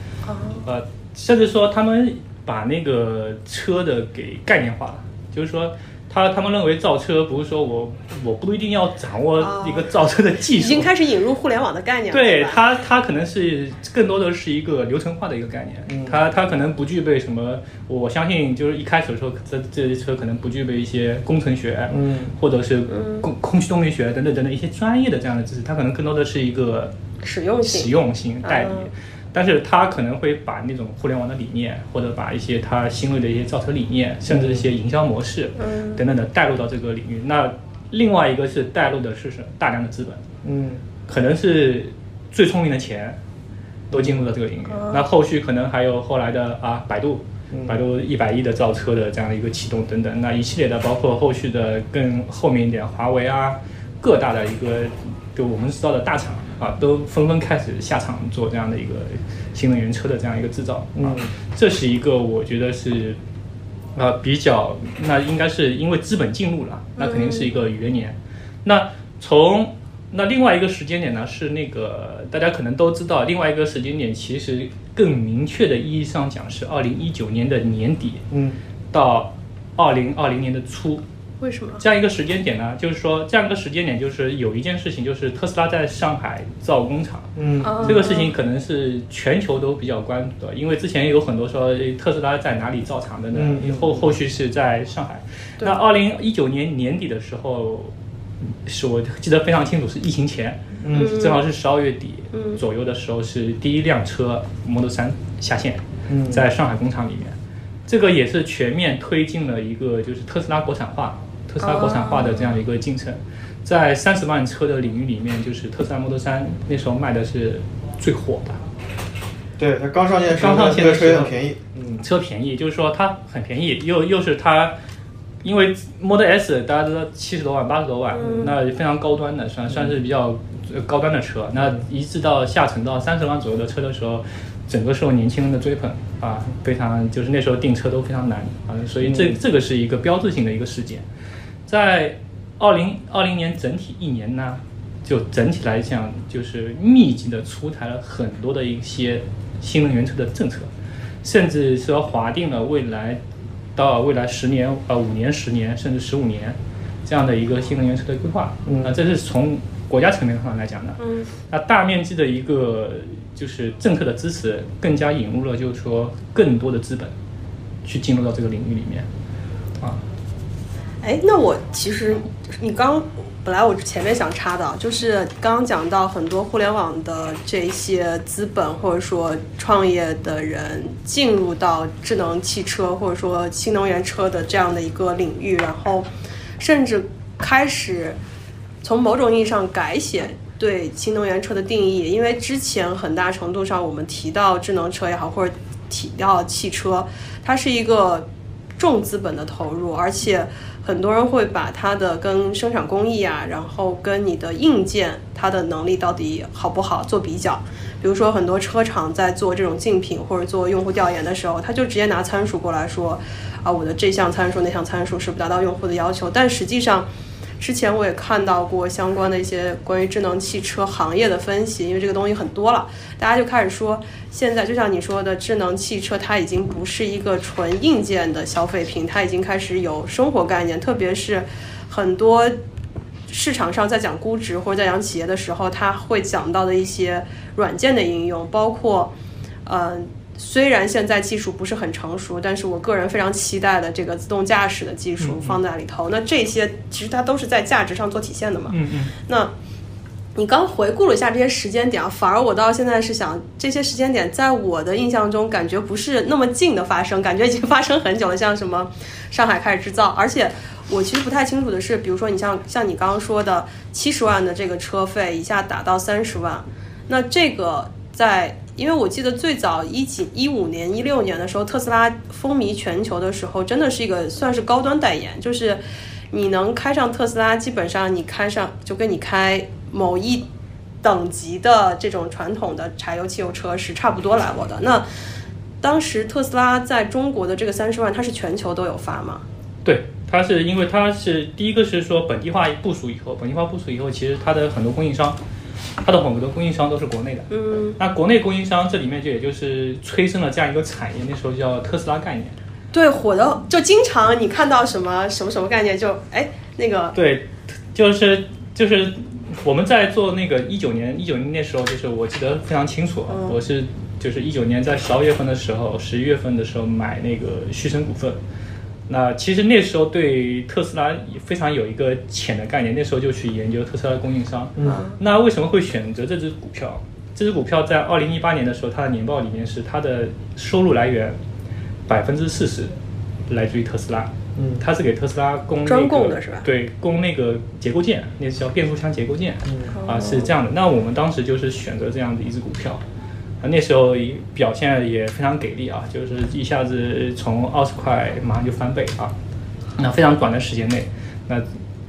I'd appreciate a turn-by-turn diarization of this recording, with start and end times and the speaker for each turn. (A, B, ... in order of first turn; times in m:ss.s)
0:00.2-0:00.7 A
0:00.6-0:10.9 B
0:09.4-0:09.9 A
0:10.5-0:12.6 A
0:12.1-0:26.9 B
0:15.9-0:16.2 C
0:21.9-0:22.3 C
0:22.9-0:23.3 A
0:27.2-0:27.9 A
0:27.6-0:40.2 B
0:28.4-0:28.9 A
0:34.3-0:34.6 C
0:35.6-0:36.0 A
0:40.4-0:40.8 C
0:41.1-0:43.2 B
0:43.9-1:03.2 B
0:43.9-0:44.3 C
0:44.7-0:45.0 A
0:47.5-0:47.8 C
1:01.0-1:01.3 C
1:03.9-1:18.2 B
1:07.0-1:07.5 A
1:18.3-1:18.6 C
1:18.9-1:21.0 B
1:21.4-1:21.8 A
1:21.8-1:47.4 B
1:27.4-1:28.0 C
1:27.6-1:28.3 A
1:33.3-1:34.1 C
1:40.8-1:41.1 C
1:40.9-1:41.4 A
1:42.3-1:42.6 A
1:46.1-1:46.4 C
1:47.9-1:58.6 B
1:51.6-1:52.6 A
1:59.6-2:02.0 C
2:00.3-2:01.3 B
2:02.0-2:04.7 B
2:05.4-2:21.0 B
2:08.1-2:08.5 A
2:19.0-2:19.4 C
2:21.7-2:30.7 B
2:31.2-2:33.2 B
2:33.7-2:47.1 B
2:38.6-2:38.9 C
2:41.0-2:41.3 A
2:47.8-2:49.1 B
2:51.0-3:06.1 A
3:06.6-3:08.2 A
3:08.8-3:37.1 A
3:37.6-3:52.6 A
3:53.3-3:59.1 A
3:59.6-4:09.5 A
4:05.2-4:05.6 B
4:08.7-4:09.1 B
4:10.3-4:40.4 A
4:41.0-4:45.0 A
4:45.8-4:49.4 A
4:49.8-4:55.4 B
4:56.0-5:02.6 B
4:57.5-4:58.0 A
5:02.9-5:07.2 A
5:07.1-5:18.4 B
5:13.3-5:13.6 A
5:19.1-5:31.4 B
5:24.8-5:25.2 A
5:32.1-5:32.9 B
5:33.5-5:43.0 B
5:34.6-5:34.8 C
5:35.8-5:36.7 A
5:39.6-5:39.9 C
5:39.9-5:40.5 A
5:43.6-5:49.3 B
5:50.0-5:51.6 B